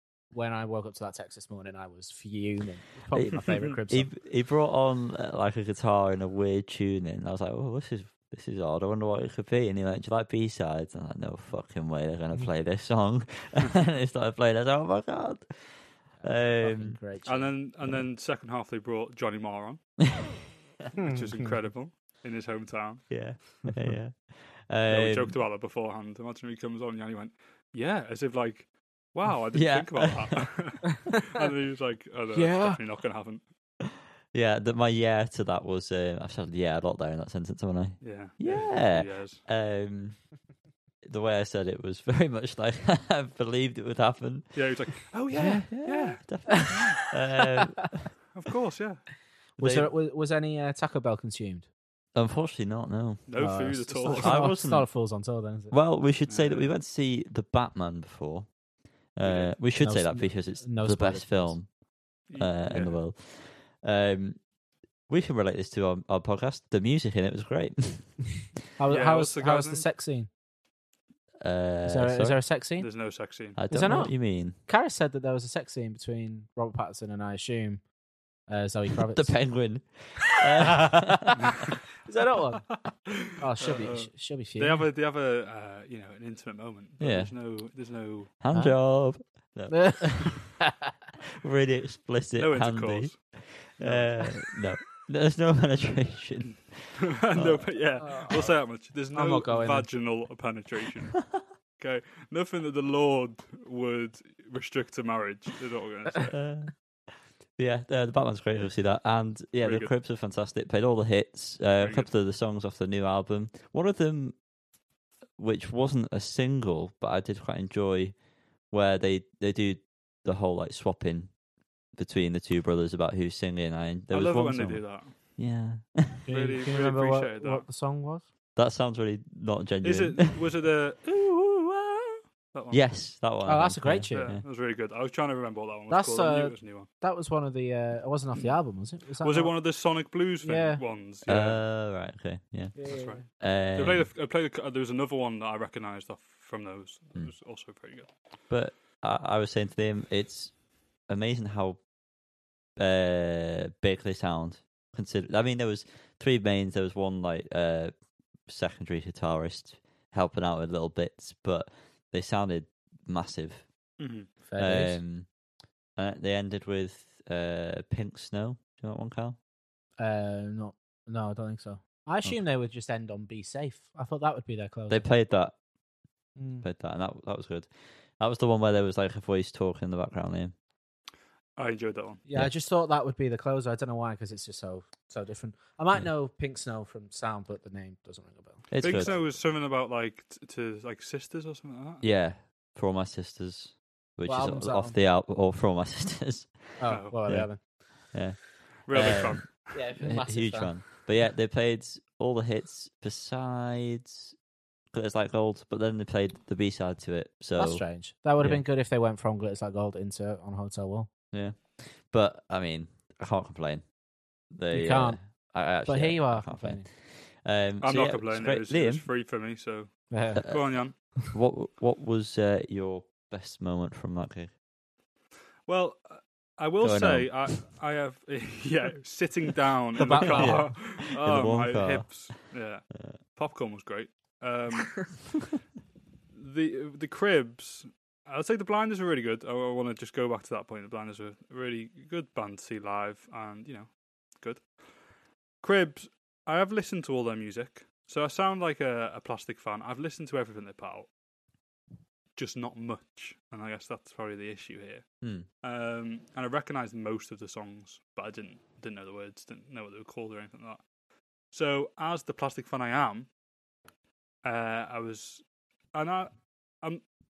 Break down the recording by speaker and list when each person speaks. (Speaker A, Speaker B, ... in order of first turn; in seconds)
Speaker A: 0.3-4.1, 16.2-17.6, 21.0-21.5, 32.3-32.8, 49.6-51.7, 53.4-55.7, 59.8-61.6, 68.8-70.3, 71.9-72.9, 73.7-77.8, 78.5-79.4, 80.8-81.3, 82.0-82.7, 83.3-84.9, 88.5-88.8, 89.7-90.9, 98.0-99.9, 126.2-128.3, 133.4-134.4, 135.9-139.7, 140.4-140.8, 142.8-143.2, 164.4-165.0, 170.0-175.1, 176.4-176.7, 182.3-189.4, 194.3-195.0, 196.8-197.9, 199.7-200.8, 207.6-211.1, 214.7-216.9, 220.1-221.0, 229.9-230.8
Speaker B: 3.1-17.0, 23.1-25.4, 29.5-30.6, 34.3-40.3, 41.0-48.1, 49.6-49.9, 52.1-53.3, 54.2-55.0, 55.7-58.5, 59.1-64.5, 65.1-68.5, 71.4-72.4, 73.6-74.6, 79.1-81.6, 87.0-87.3, 88.4-90.5, 91.4-97.7, 106.3-106.8, 107.6-114.4, 115.4-118.2, 118.7-121.3, 121.9-126.2, 128.6-130.3, 132.7-134.4, 141.2-144.1, 148.5-151.8, 152.8-157.9, 158.5-163.7, 164.6-165.3, 165.9-169.4, 174.9-175.6, 176.6-180.5, 188.7-189.2, 192.0-204.3, 204.9-208.6, 211.3-213.9, 214.5-219.1, 220.3-224.6, 226.8-227.5, 230.2-232.3, 255.2-255.4
Speaker C: 17.2-19.8, 21.0-23.6, 24.9-33.4, 38.0-39.4, 44.5-47.0, 48.3-49.1, 53.3-54.5, 56.2-56.7, 59.2-59.6, 62.3-63.0, 68.9-69.8, 72.8-73.6, 82.7-88.3, 92.4-94.4, 96.9-106.4, 109.6-109.9, 111.8-112.1, 124.1-125.2, 126.3-127.7, 129.8-133.0, 134.1-136.9, 139.2-141.6, 142.9-148.1, 164.0-164.3, 181.6-182.2, 188.8-192.0, 196.9-197.2, 198.8-199.8, 217.8-220.9, 225.7-235.3, 236.3-245.0, 245.6-251.1, 252.3-260.9, 261.4-263.3, 264.4-267.0